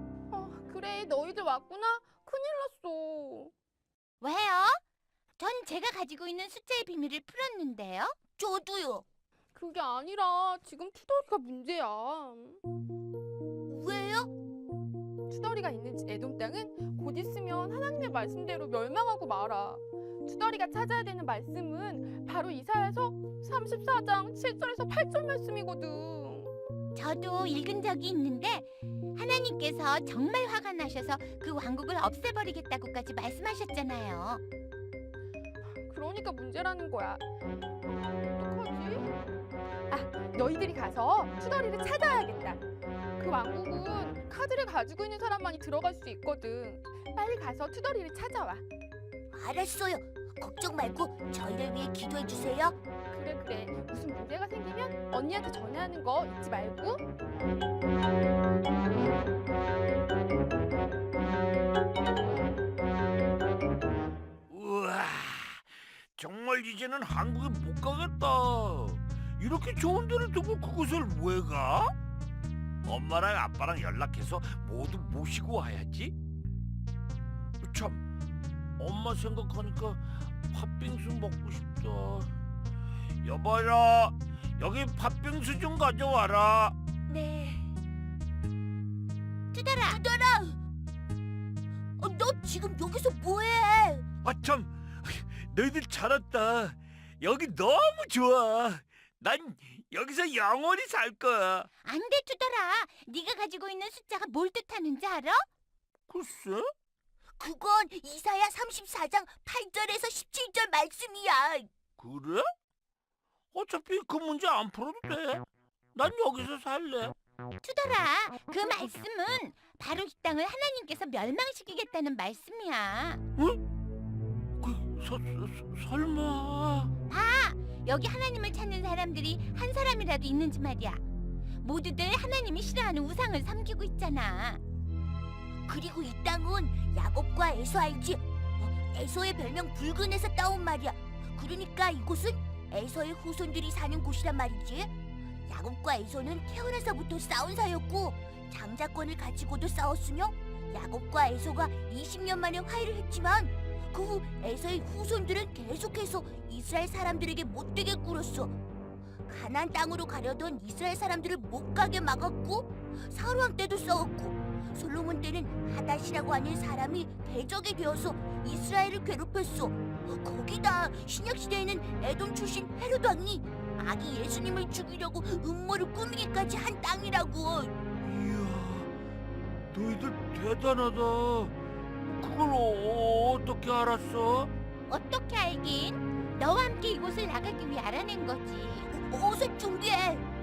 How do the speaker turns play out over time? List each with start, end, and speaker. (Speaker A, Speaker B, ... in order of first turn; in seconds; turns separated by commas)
Speaker A: 0.3-3.5, Speaker B: 4.2-4.8, Speaker B: 5.4-8.2, Speaker C: 8.4-9.1, Speaker A: 9.6-12.6, Speaker C: 13.7-14.3, Speaker A: 15.3-26.5, Speaker B: 26.9-34.4, Speaker A: 35.9-37.2, Speaker A: 38.4-39.1, Speaker A: 39.9-42.6, Speaker A: 43.2-48.6, Speaker C: 49.3-52.8, Speaker A: 53.1-57.0, Speaker D: 64.5-65.7, Speaker D: 66.2-71.9, Speaker D: 72.8-76.2, Speaker D: 77.6-78.0, Speaker D: 78.8-82.3, Speaker D: 83.2-86.8, Speaker B: 87.1-87.6, Speaker B: 89.5-90.0, Speaker C: 89.9-90.6, Speaker C: 92.0-94.0, Speaker D: 94.2-101.7, Speaker B: 101.8-105.4, Speaker D: 106.1-106.7, Speaker C: 107.4-111.7, Speaker D: 112.0-112.5, Speaker D: 113.5-117.2, Speaker B: 117.6-123.2, Speaker D: 124.6-126.9, Speaker B: 127.1-131.0, Speaker B: 131.6-134.6, Speaker C: 135.7-144.9, Speaker C: 145.5-158.6, Speaker C: 159.3-177.7, Speaker D: 178.0-178.9, Speaker D: 179.7-184.5, Speaker B: 184.9-188.9, Speaker C: 188.9-190.3